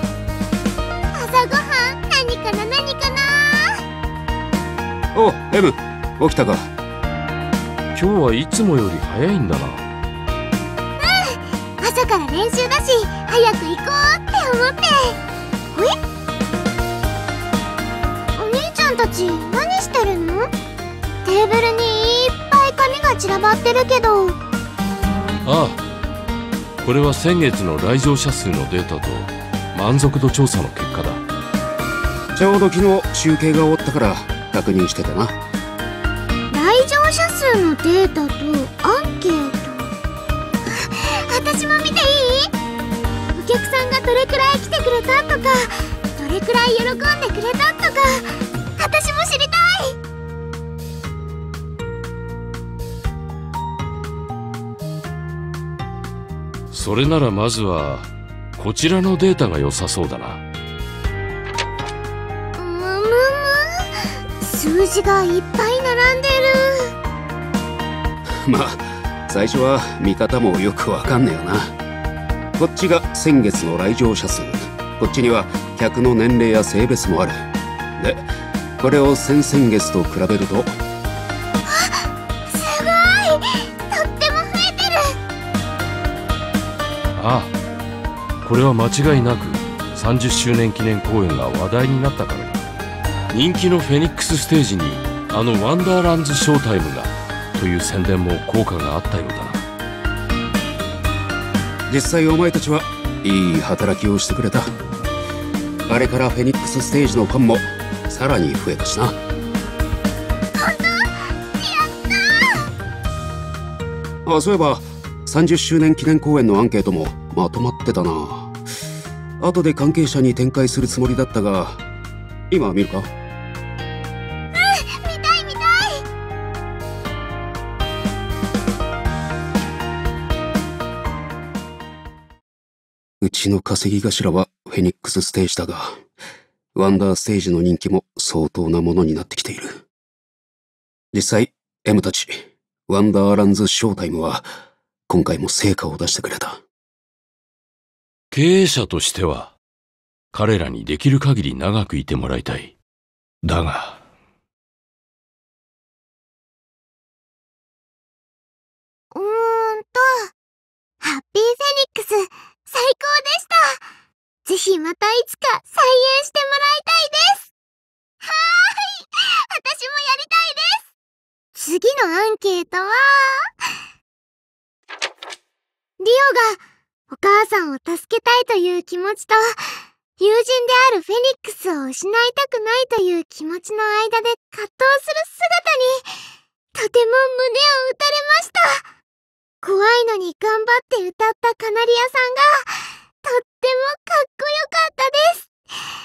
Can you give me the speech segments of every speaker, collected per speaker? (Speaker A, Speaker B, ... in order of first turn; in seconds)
Speaker A: 1.1-3.8, 11.0-15.2, 18.4-20.5, 21.2-24.4, 36.5-39.9, 40.7-42.5, 43.4-50.0, 62.6-66.9, 81.7-85.0, 110.5-112.6, 124.5-126.0, 159.1-160.3, 161.0-163.8, 164.5-167.5, 168.2-170.9, 171.6-173.5, 176.0-179.6, 180.2-186.1, 186.8-188.8, 189.6-195.5
Speaker B: 5.1-6.7, 32.4-35.4, 68.5-71.7, 72.6-77.4, 78.0-78.3, 78.8-80.7, 101.9-104.7, 105.9-109.2, 114.3-118.5, 119.4-121.8, 122.5-123.1, 133.2-135.9, 136.8-139.8, 141.1-144.5, 145.1-146.6
Speaker C: 8.0-9.8, 25.4-25.8, 26.8-31.2, 56.7-60.4, 87.2-87.5, 88.4-92.6, 93.3-99.7, 148.3-149.6, 150.3-152.8, 153.4-154.0